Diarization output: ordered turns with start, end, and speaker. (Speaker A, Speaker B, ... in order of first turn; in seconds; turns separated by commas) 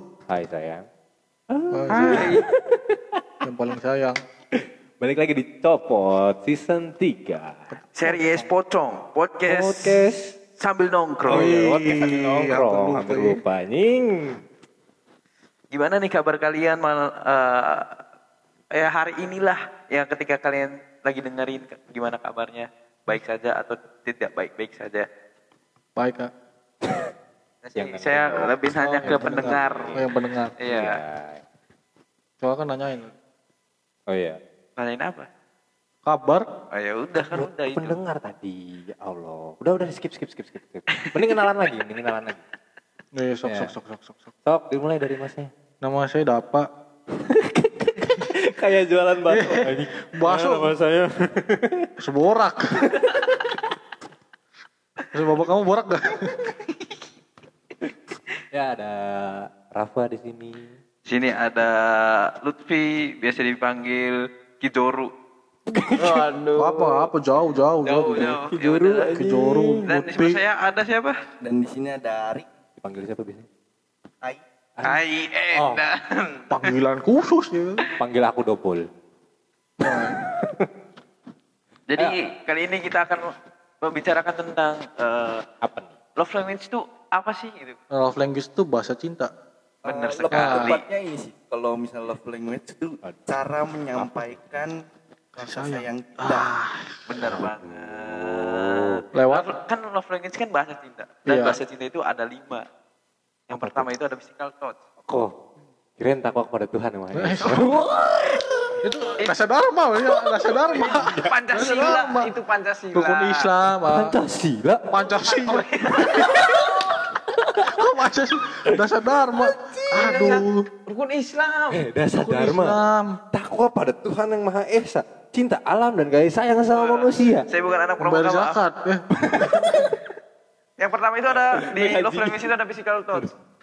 Speaker A: 0.3-0.8, Speaker A: 1.5-3.2, Speaker B: 1.7-2.2, Speaker C: 1.9-2.4, Speaker B: 3.4-4.2, Speaker A: 4.5-7.7, Speaker B: 7.7-8.5, Speaker C: 7.9-10.0, Speaker A: 9.5-10.3, Speaker C: 10.6-11.6, Speaker A: 11.2-14.4, Speaker B: 11.3-13.2, Speaker D: 12.5-13.4, Speaker C: 15.7-18.0, Speaker C: 18.7-25.1, Speaker B: 25.9-26.3, Speaker C: 27.6-30.0, Speaker A: 27.8-30.0, Speaker B: 28.7-30.5, Speaker C: 30.6-31.0, Speaker A: 30.6-31.4, Speaker B: 32.4-33.1, Speaker A: 34.1-34.4, Speaker C: 34.8-35.3, Speaker B: 36.0-36.5, Speaker C: 36.7-38.0, Speaker A: 37.3-42.4, Speaker C: 41.0-41.4, Speaker B: 43.2-44.3, Speaker A: 43.4-43.7, Speaker A: 44.4-45.5, Speaker B: 45.8-46.7, Speaker A: 47.2-51.9, Speaker B: 49.3-50.7, Speaker B: 52.0-52.9, Speaker A: 52.8-53.4, Speaker B: 55.1-56.5, Speaker A: 58.5-60.8, Speaker C: 61.0-65.1, Speaker A: 65.7-66.2, Speaker C: 66.0-66.7, Speaker B: 66.5-68.4, Speaker C: 67.8-69.2, Speaker A: 68.2-69.9, Speaker B: 69.1-70.4, Speaker C: 69.8-71.2, Speaker D: 71.4-72.5, Speaker A: 72.8-73.5, Speaker C: 74.8-76.7, Speaker A: 75.5-75.8, Speaker B: 76.5-77.8, Speaker A: 78.0-78.8, Speaker B: 79.8-80.2, Speaker A: 80.2-80.7, Speaker C: 81.9-85.5, Speaker A: 85.6-86.0, Speaker C: 86.2-87.8, Speaker B: 87.9-89.3, Speaker D: 89.8-94.7, Speaker C: 89.8-90.8, Speaker B: 90.3-90.8, Speaker A: 94.0-94.4, Speaker D: 95.3-96.5, Speaker B: 95.4-97.0, Speaker C: 97.1-102.6, Speaker A: 97.2-99.0, Speaker B: 99.1-99.5, Speaker B: 101.2-101.6, Speaker C: 103.5-104.7, Speaker A: 103.5-103.9, Speaker A: 105.1-105.3, Speaker A: 106.0-108.0, Speaker B: 107.1-107.5, Speaker C: 107.4-109.4, Speaker B: 108.8-112.3, Speaker C: 110.5-113.5, Speaker B: 112.9-114.1, Speaker A: 113.9-114.9, Speaker B: 114.9-116.7, Speaker C: 115.3-116.8, Speaker A: 116.0-116.8, Speaker A: 117.3-117.8, Speaker B: 117.4-120.6, Speaker A: 118.7-120.3, Speaker C: 119.9-121.8, Speaker A: 121.7-122.8, Speaker B: 122.2-123.2, Speaker A: 123.3-127.5, Speaker C: 126.7-128.6, Speaker B: 128.0-129.0, Speaker A: 129.1-130.0, Speaker C: 130.8-133.3, Speaker A: 131.3-132.5